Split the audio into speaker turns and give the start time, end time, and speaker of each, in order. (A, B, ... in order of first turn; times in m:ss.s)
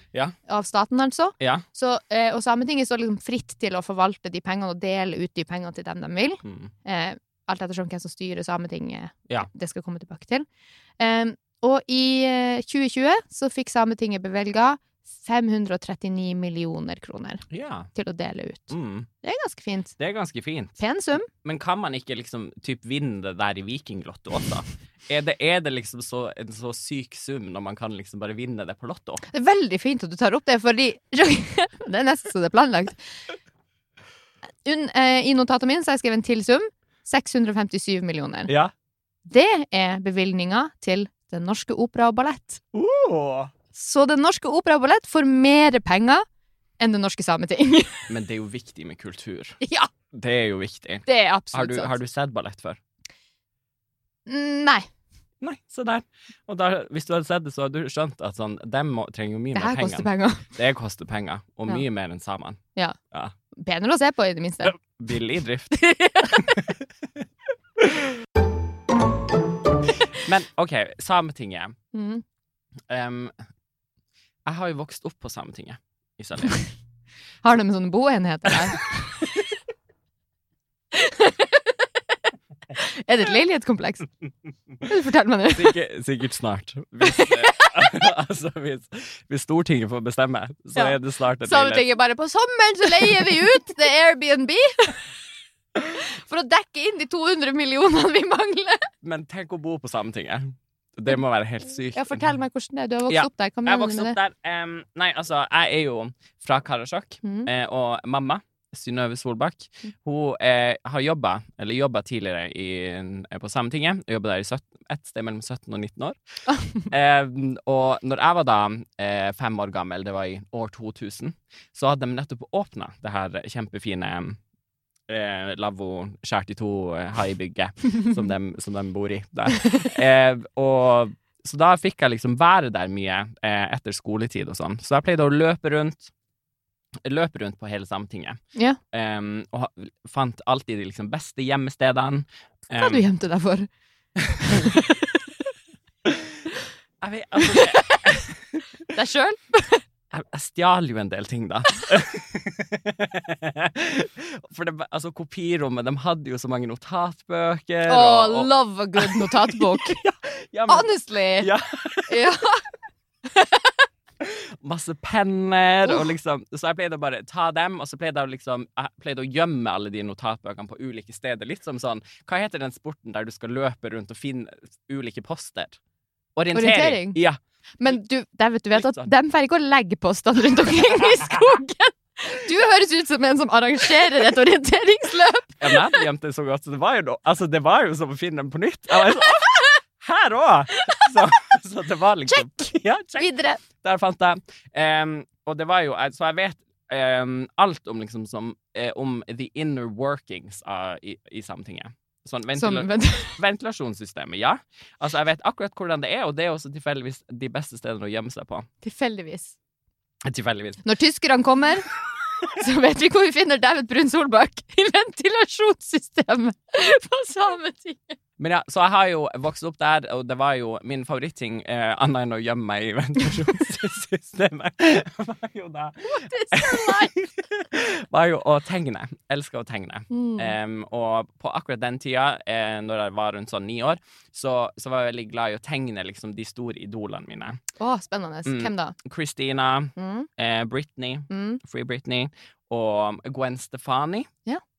0:00.4-0:10.4 A
0:06.4-0:06.7 B
0:11.0-0:20.0 A
0:17.5-0:17.9 B
0:18.7-0:19.1 B
0:20.0-0:20.8 B
0:20.8-0:21.3 A
0:21.3-0:29.2 B
0:29.3-0:33.2 A
0:34.6-0:38.5 A
0:38.5-0:38.7 B
0:39.2-0:42.6 A
0:42.7-0:43.5 B
0:43.7-0:46.2 A
0:46.8-0:48.1 A
0:48.1-0:49.6 B
0:49.6-0:49.9 A
0:50.1-0:52.8 B
0:51.0-0:51.9 A
0:54.3-0:54.9 A
0:55.4-1:02.6 B
0:59.5-1:00.5 A
1:03.5-1:04.8 A
1:04.6-1:06.8 B
1:05.7-1:06.5 A
1:10.2-1:11.8 B
1:11.9-1:12.2 A
1:12.9-1:13.3 B
1:14.4-1:16.7 B
1:17.4-1:19.2 A
1:20.9-1:21.8 A
1:22.7-1:24.1 A
1:24.8-1:25.8 A
1:25.5-1:31.8 B
1:27.0-1:28.0 A
1:30.7-1:35.2 A
1:33.0-1:33.4 B
1:35.8-1:38.9 A
1:39.0-1:42.3 B
1:41.9-1:44.2 A
1:43.1-1:56.2 B
1:47.2-1:47.5 A
1:56.8-2:04.4 B
2:05.1-2:16.1 B
2:17.0-2:18.4 B
2:18.5-2:18.8 A
2:18.9-2:23.0 B
2:22.8-2:23.7 A
2:24.4-2:25.2 A
2:27.0-2:28.6 B
2:27.4-2:28.2 A
2:28.9-2:29.8 A
2:30.1-2:42.2 B
2:37.9-2:40.0 A
2:40.7-2:41.5 A
2:42.1-2:42.7 A
2:43.3-2:43.7 A
2:44.2-2:55.8 B
2:56.4-2:57.4 B
2:56.5-2:57.2 A
2:57.8-3:06.0 A
2:58.7-2:59.1 B
3:05.6-3:28.7 B
3:09.2-3:09.8 A
3:12.3-3:12.6 A
3:13.2-3:13.6 A
3:22.6-3:23.4 A
3:28.8-3:29.6 A
3:30.2-3:30.8 B
3:30.8-3:31.9 A
3:32.5-3:38.2 A
3:38.4-3:57.6 B
3:46.1-3:47.2 A
3:50.1-3:50.5 A
3:57.8-3:59.0 A
3:58.4-4:04.3 B
4:00.0-4:00.3 A
4:01.3-4:01.6 A